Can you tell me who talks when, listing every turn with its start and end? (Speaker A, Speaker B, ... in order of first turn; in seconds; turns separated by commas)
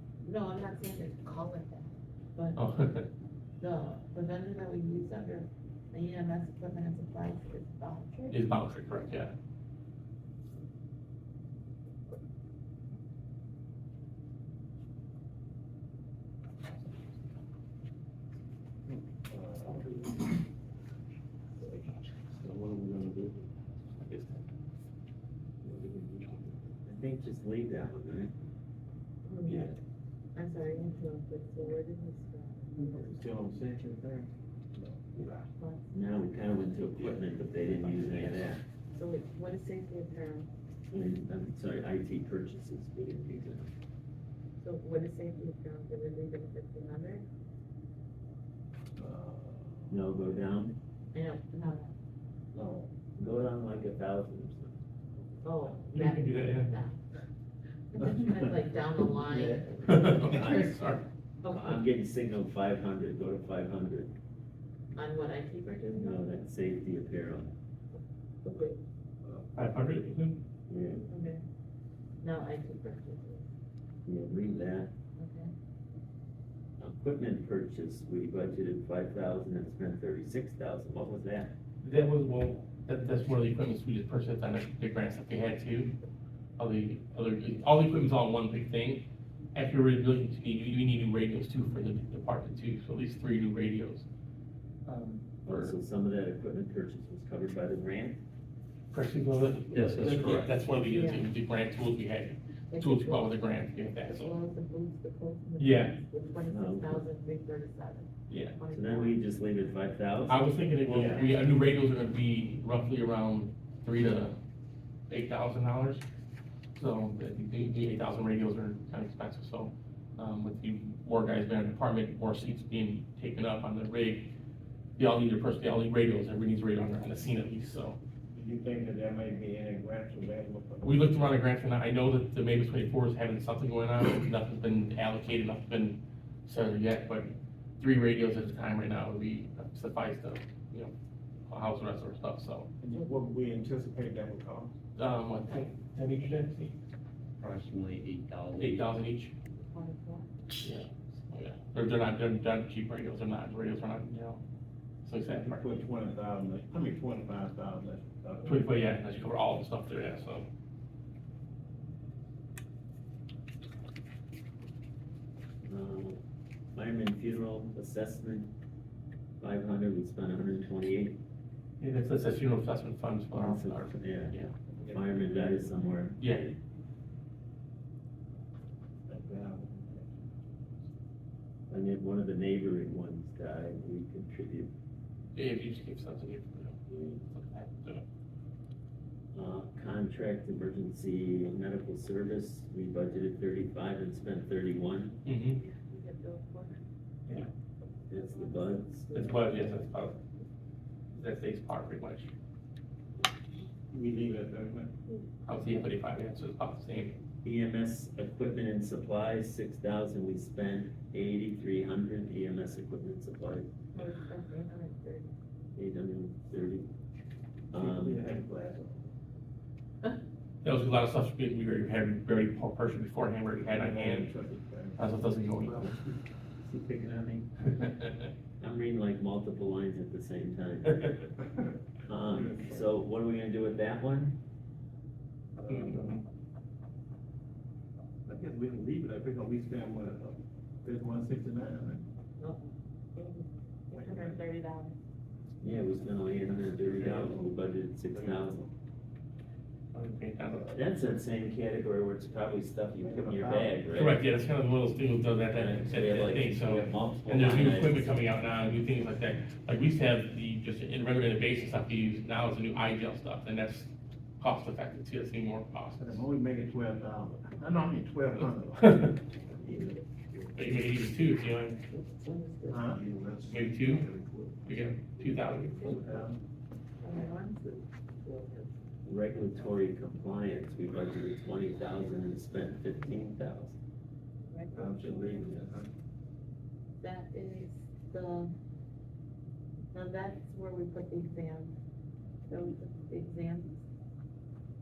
Speaker A: 0.2-2.6, Speaker B: 2.5-3.1, Speaker A: 3.6-8.4, Speaker B: 8.3-9.3, Speaker C: 19.3-20.2, Speaker C: 22.2-23.4, Speaker C: 25.6-26.8, Speaker D: 26.8-28.3, Speaker A: 29.2-29.6, Speaker D: 29.5-29.7, Speaker A: 30.3-32.9, Speaker C: 32.8-35.4, Speaker A: 35.5-35.9, Speaker D: 35.9-38.6, Speaker B: 37.7-38.5, Speaker A: 38.9-40.5, Speaker D: 40.9-43.7, Speaker A: 44.6-47.2, Speaker C: 49.0-50.0, Speaker D: 49.9-50.8, Speaker A: 51.1-51.9, Speaker C: 52.5-53.0, Speaker D: 53.1-54.8, Speaker A: 55.4-57.0, Speaker B: 55.9-56.8, Speaker A: 57.9-60.1, Speaker C: 58.2-58.5, Speaker C: 59.2-59.6, Speaker B: 59.8-61.0, Speaker D: 60.2-60.8, Speaker A: 61.4-61.8, Speaker D: 61.5-64.1, Speaker A: 64.9-66.2, Speaker D: 66.0-67.5, Speaker A: 68.4-68.8, Speaker B: 69.5-70.4, Speaker D: 70.7-71.1, Speaker A: 71.1-71.4, Speaker A: 72.2-73.5, Speaker D: 74.0-74.9, Speaker A: 75.2-75.5, Speaker D: 76.8-81.5, Speaker B: 81.8-85.9, Speaker B: 86.6-94.0, Speaker B: 94.8-95.7, Speaker D: 95.4-98.2, Speaker B: 98.9-104.3, Speaker E: 99.7-100.5, Speaker A: 100.9-101.3, Speaker A: 102.7-103.4, Speaker A: 104.0-109.2, Speaker B: 105.6-106.0, Speaker D: 106.5-107.1, Speaker B: 108.3-108.6, Speaker D: 108.7-110.4, Speaker B: 110.3-114.4, Speaker A: 110.9-111.5, Speaker D: 110.9-111.2, Speaker B: 115.1-116.0, Speaker B: 116.7-124.3, Speaker B: 125.0-128.0, Speaker C: 128.3-131.2, Speaker B: 130.8-140.9, Speaker B: 141.5-142.7, Speaker C: 142.8-144.7, Speaker A: 142.9-143.2, Speaker B: 145.0-146.8, Speaker E: 147.4-148.8, Speaker B: 148.6-149.3, Speaker A: 149.6-150.3, Speaker B: 150.6-154.4, Speaker B: 155.0-155.7, Speaker C: 155.3-158.8, Speaker B: 158.4-160.4, Speaker D: 165.7-166.2, Speaker D: 166.7-168.5, Speaker D: 169.4-171.2, Speaker B: 171.8-174.6, Speaker D: 173.3-176.6, Speaker C: 174.8-175.8, Speaker B: 176.2-176.4, Speaker C: 179.1-180.8, Speaker D: 181.7-184.7, Speaker B: 185.3-188.0, Speaker D: 186.9-187.1, Speaker D: 189.3-195.2, Speaker B: 195.2-195.6, Speaker A: 195.5-196.9, Speaker D: 198.1-199.5, Speaker A: 198.1-199.6, Speaker B: 199.1-200.2, Speaker B: 201.1-202.3, Speaker C: 203.9-204.9, Speaker B: 205.4-207.2, Speaker D: 207.4-213.7, Speaker A: 213.9-215.3, Speaker D: 215.7-216.9, Speaker D: 217.7-218.3, Speaker C: 217.7-219.2, Speaker B: 220.6-224.3, Speaker C: 223.7-225.1, Speaker B: 225.0-226.0, Speaker C: 225.6-226.0, Speaker D: 226.6-227.5, Speaker B: 227.7-228.1, Speaker D: 228.6-231.1, Speaker D: 232.1-234.4, Speaker C: 232.3-232.8, Speaker C: 235.6-236.2, Speaker B: 235.7-236.2, Speaker C: 238.2-242.1, Speaker A: 242.4-244.9, Speaker C: 243.9-244.4, Speaker D: 245.6-248.6, Speaker C: 247.0-247.4, Speaker C: 248.1-248.7, Speaker B: 249.9-250.7, Speaker D: 250.7-254.2, Speaker C: 253.0-253.8, Speaker B: 253.9-266.2, Speaker D: 255.5-258.1, Speaker C: 266.0-270.4, Speaker B: 268.8-269.2, Speaker B: 270.5-271.8, Speaker A: 271.9-273.0, Speaker C: 272.7-276.4, Speaker B: 273.5-274.1, Speaker B: 274.6-276.0, Speaker A: 275.5-276.2, Speaker A: 277.0-278.7, Speaker D: 279.0-283.8, Speaker A: 284.5-285.5, Speaker C: 284.7-285.9, Speaker A: 287.0-288.5, Speaker A: 289.9-291.8, Speaker A: 292.4-293.9